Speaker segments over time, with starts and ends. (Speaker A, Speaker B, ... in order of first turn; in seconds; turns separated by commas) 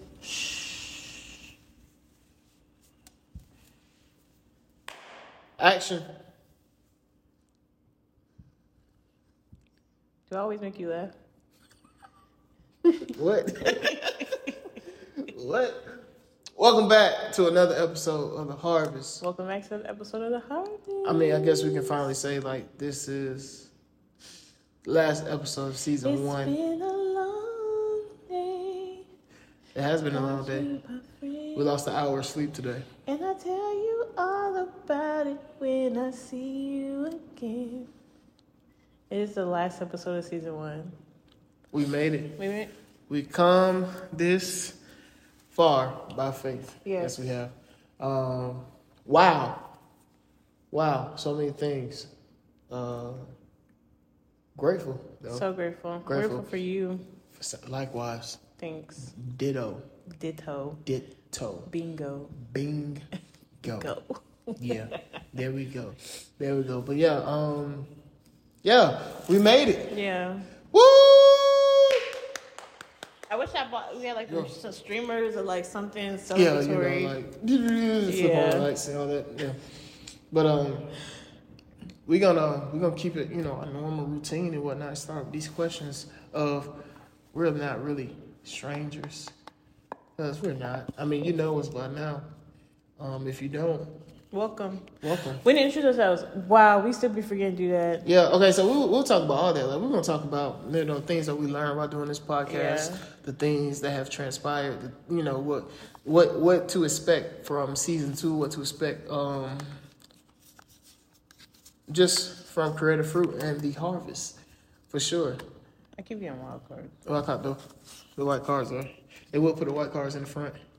Speaker A: 0.2-1.0, Speaker A: 5.6-6.1, Speaker B: 10.3-11.1, Speaker A: 12.9-14.4, Speaker B: 13.7-14.6, Speaker A: 15.2-15.8, Speaker A: 16.6-19.2, Speaker B: 19.2-22.0, Speaker A: 21.0-23.7, Speaker A: 24.9-26.6, Speaker B: 26.0-29.1, Speaker A: 29.7-30.7, Speaker B: 30.1-31.7, Speaker A: 31.6-32.9, Speaker B: 33.1-37.9, Speaker B: 39.1-41.0, Speaker A: 41.7-42.4, Speaker B: 42.4-42.7, Speaker A: 43.1-44.8, Speaker A: 45.5-49.7, Speaker B: 46.9-47.2, Speaker A: 50.7-52.1, Speaker A: 52.7-53.3, Speaker A: 54.5-55.5, Speaker B: 55.3-57.0, Speaker A: 56.1-56.5, Speaker A: 57.4-58.4, Speaker B: 58.6-59.1, Speaker A: 59.0-59.9, Speaker B: 60.1-60.8, Speaker A: 60.9-61.7, Speaker B: 61.7-62.4, Speaker A: 62.4-63.1, Speaker A: 63.6-63.9, Speaker B: 63.8-65.2, Speaker A: 64.6-67.9, Speaker A: 68.6-70.0, Speaker B: 69.9-70.5, Speaker A: 70.7-72.1, Speaker B: 73.3-77.2, Speaker A: 74.3-74.5, Speaker A: 76.3-79.6, Speaker B: 78.1-78.7, Speaker A: 80.3-80.9, Speaker A: 82.1-86.8, Speaker A: 87.3-89.3, Speaker A: 90.2-92.3, Speaker A: 93.0-94.0, Speaker B: 94.3-98.0, Speaker A: 95.0-95.5, Speaker A: 98.0-109.8, Speaker B: 102.5-103.0, Speaker A: 111.9-114.4, Speaker A: 114.9-115.4, Speaker B: 116.0-117.0, Speaker A: 117.0-117.6, Speaker A: 118.2-120.6